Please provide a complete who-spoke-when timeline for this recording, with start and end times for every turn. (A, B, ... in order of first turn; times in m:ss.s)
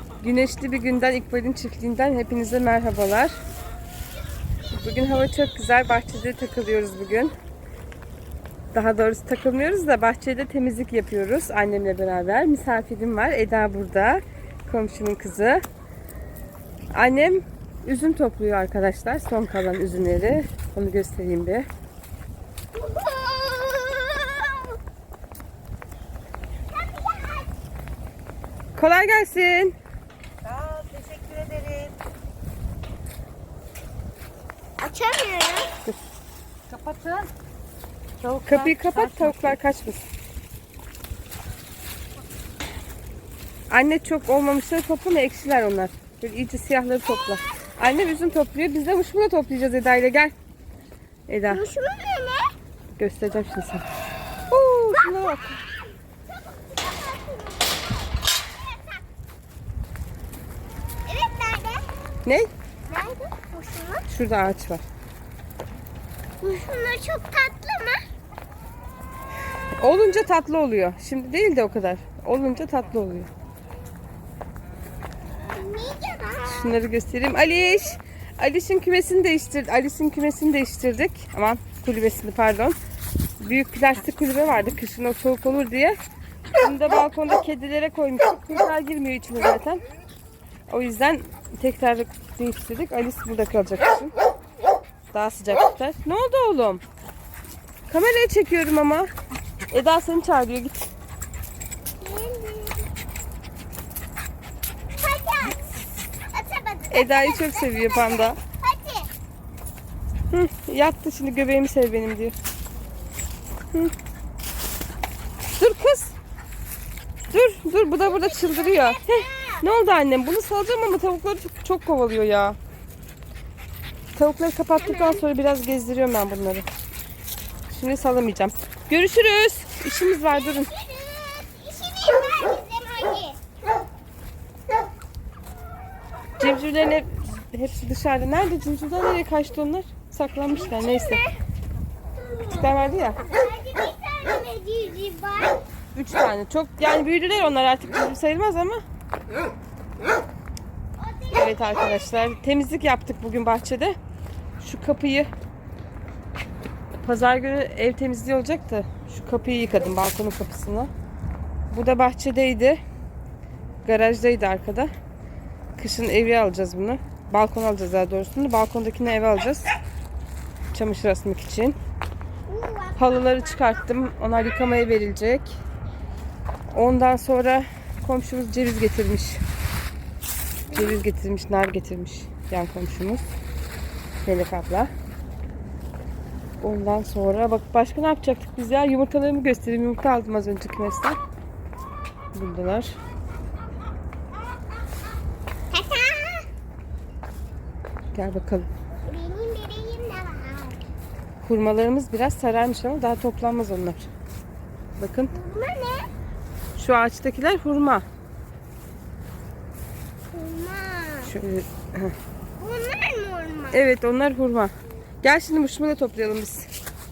0:00.2-0:03.4 A
0:04.7-0:07.3 A
0:08.7-0:15.6 A
0:16.9-0:21.7 A
0:22.7-0:24.8 B
0:26.7-0:27.5 B
0:28.8-0:29.8 A
0:30.4-0:32.0 C
0:34.8-0:35.7 B
0:36.7-0:37.3 C
0:38.2-0:39.6 C
0:38.5-0:40.0 A
0:43.7-0:50.3 A
0:51.3-0:51.6 A
0:51.5-0:52.5 B
0:53.0-0:53.8 A
0:54.5-0:55.6 A
0:54.9-0:59.0 B
1:01.1-1:01.9 B
1:02.2-1:02.5 A
1:02.9-1:04.1 B
1:04.1-1:04.8 A
1:06.4-1:08.0 B
1:09.8-1:13.3 A
1:15.5-1:16.7 B
1:16.5-1:22.8 A
1:23.4-1:26.0 A
1:26.6-1:29.8 A
1:30.7-1:34.1 A
1:35.1-1:36.8 A
1:37.9-1:39.1 A
1:39.7-1:40.9 A
1:42.0-1:42.9 B
1:45.0-1:45.6 B
1:46.3-1:49.1 B
1:46.9-1:48.4 A
1:50.3-1:52.3 A
1:55.6-1:56.2 A
1:57.3-2:02.6 A
1:57.9-1:59.6 B
2:04.2-2:06.7 A
2:04.8-2:05.2 B
2:07.7-2:10.7 A
2:10.3-2:13.4 B
2:16.4-2:21.2 A
2:20.5-2:21.3 B
2:22.2-2:25.6 B
2:22.6-2:23.2 A
2:26.0-2:28.8 A
2:31.0-2:32.4 B
2:31.3-2:34.0 A
2:34.6-2:35.3 A
2:37.0-2:40.9 A
2:41.7-2:42.8 A
2:43.8-2:44.9 A
2:45.8-2:49.7 A
2:50.7-2:51.8 A
2:52.5-2:53.8 B
2:53.0-2:55.6 A
2:56.7-2:59.4 A
3:00.7-3:01.0 B
3:00.7-3:03.2 A
3:04.2-3:04.9 A
3:06.6-3:11.2 A
3:12.3-3:13.0 A
3:15.7-3:16.5 B
3:18.1-3:18.7 A
3:19.1-3:20.8 B
3:21.4-3:24.1 A
3:25.0-3:25.3 A
3:25.3-3:26.1 B
3:26.8-3:28.0 A
3:30.3-3:31.3 B
3:31.2-3:32.1 A
3:32.6-3:33.8 B
3:33.7-3:34.7 A
3:35.2-3:36.7 A